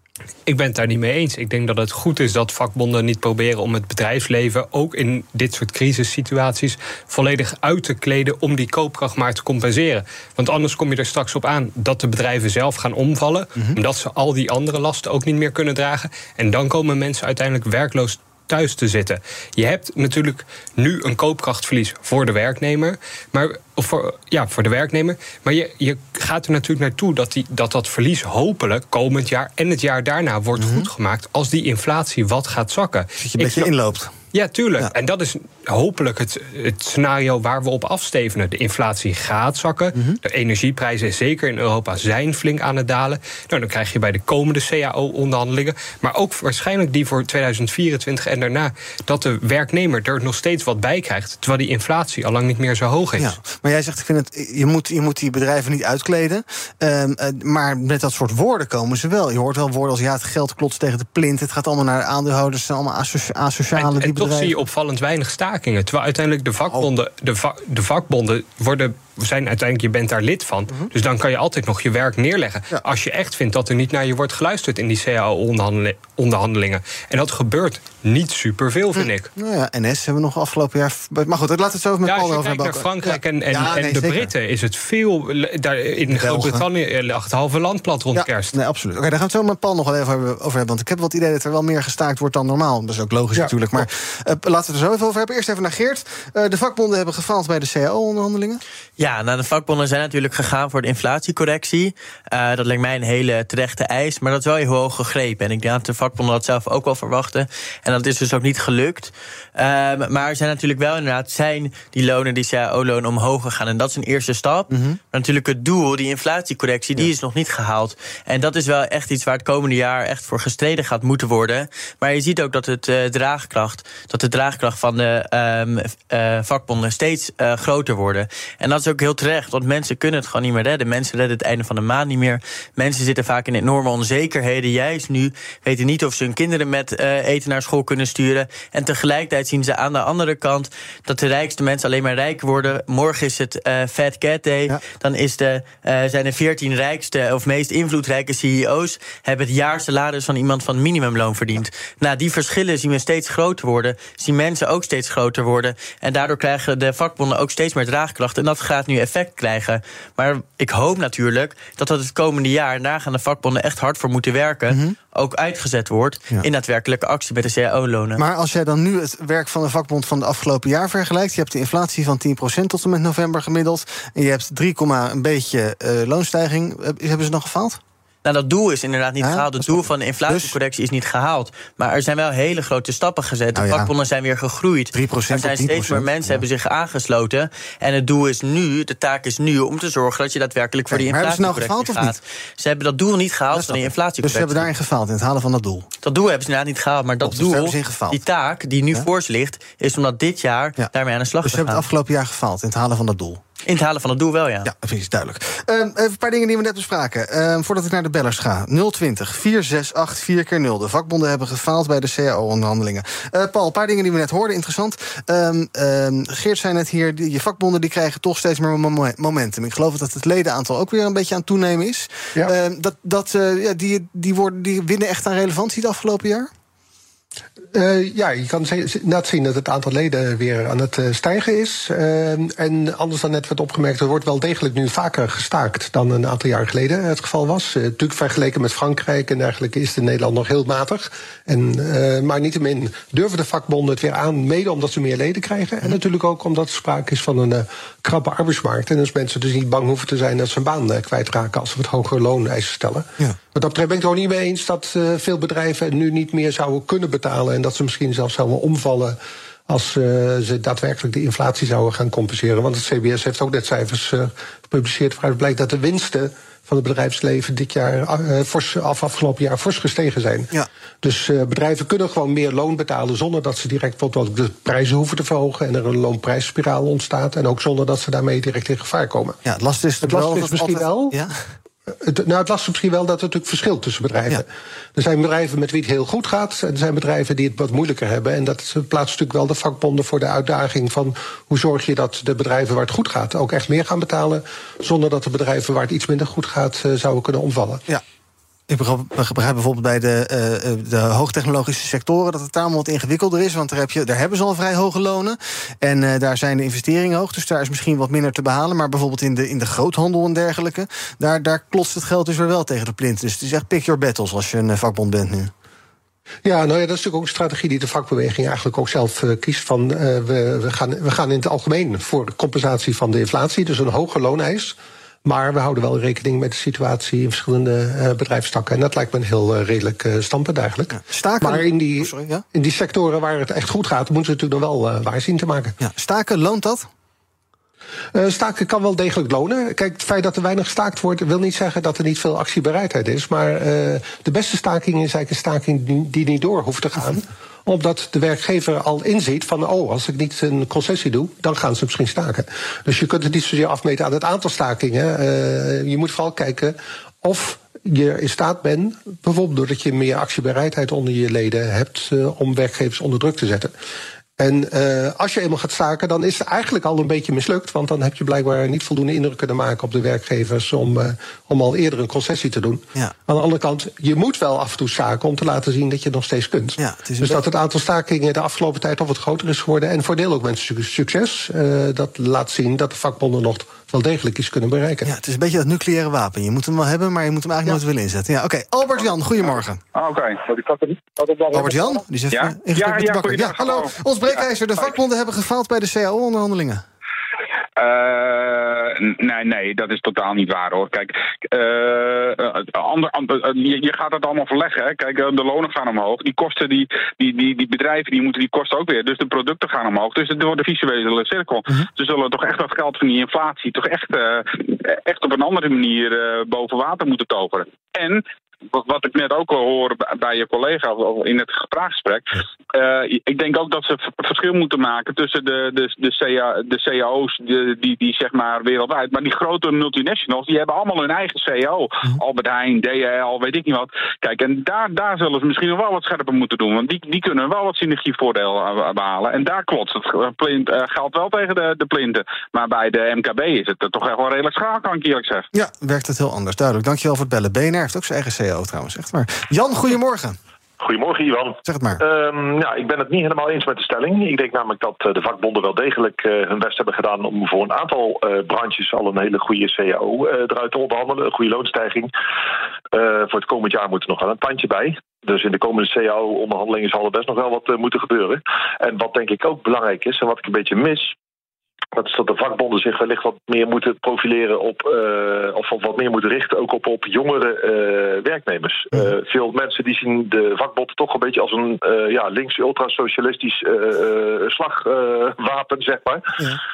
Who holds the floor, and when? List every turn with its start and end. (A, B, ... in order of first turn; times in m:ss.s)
0:00.5-0:33.7 A
0:30.6-0:30.9 B
0:33.2-0:34.1 B
0:34.3-0:53.3 A
0:39.9-0:40.2 B
0:53.2-1:04.5 B
1:03.8-1:19.3 A
1:18.9-1:24.3 B
1:22.0-1:28.5 A
1:26.1-1:26.6 B
1:28.1-1:38.6 B
1:39.0-2:48.2 C
1:54.7-1:55.0 B
2:44.7-2:45.0 B
2:48.2-2:57.8 B
2:58.2-3:14.7 C
2:59.2-3:00.5 B
3:03.5-3:03.9 B
3:04.9-3:06.4 B
3:10.9-3:12.2 B
3:13.5-3:15.9 B
3:16.0-3:21.8 C
3:17.2-3:18.2 B
3:21.4-3:23.4 B
3:23.6-3:24.7 C
3:24.6-3:46.5 B
3:47.7-4:30.5 D
4:31.0-4:39.4 D
4:39.4-4:41.4 B
4:40.0-4:41.2 D
4:41.9-4:57.8 D
4:58.7-5:15.5 B
5:16.4-5:35.8 D
5:30.9-5:32.4 B
5:35.8-5:36.9 B
5:38.2-6:03.7 D
6:04.4-6:25.1 D
6:16.8-6:17.4 B
6:25.0-6:29.8 B
6:29.9-6:30.4 E
6:30.5-6:31.8 F
6:31.5-6:36.8 B
6:32.3-6:33.9 E
6:37.8-7:25.4 E
7:25.5-7:30.4 B
7:30.8-7:42.1 F
7:31.6-7:32.0 B
7:42.9-7:51.2 F
7:51.9-8:06.4 F